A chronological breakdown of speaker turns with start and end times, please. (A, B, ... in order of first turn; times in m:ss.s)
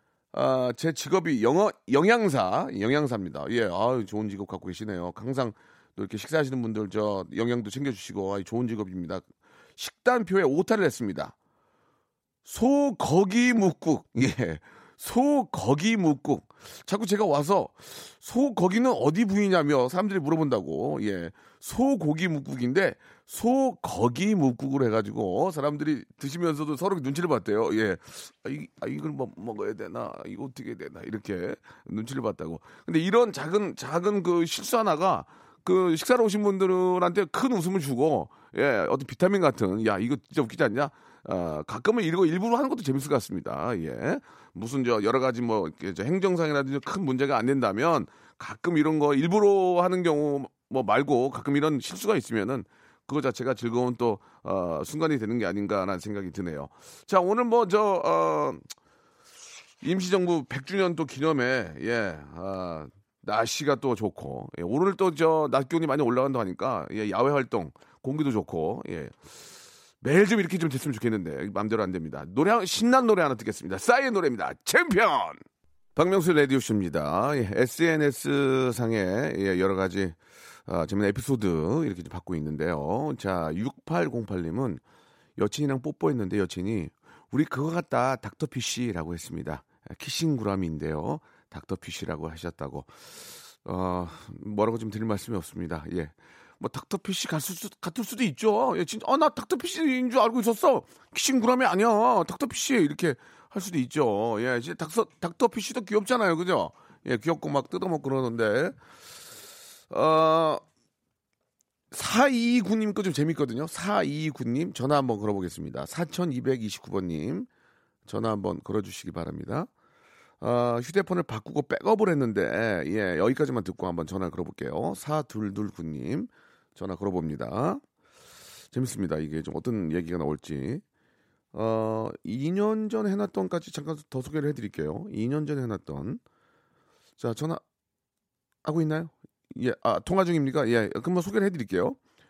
0:00.3-0:09.3 A
0:09.8-0:11.3 A
0:12.4-0:58.6 A
0:59.8-1:09.4 A
1:10.0-1:15.4 A
1:16.0-1:24.8 A
1:25.4-1:48.8 A
1:49.9-1:50.6 A
1:51.9-1:57.5 A
1:58.1-1:59.7 A
2:00.4-2:07.8 A
2:08.7-2:10.8 A
2:11.5-2:16.2 A
2:17.2-2:17.6 A
2:18.6-2:22.0 A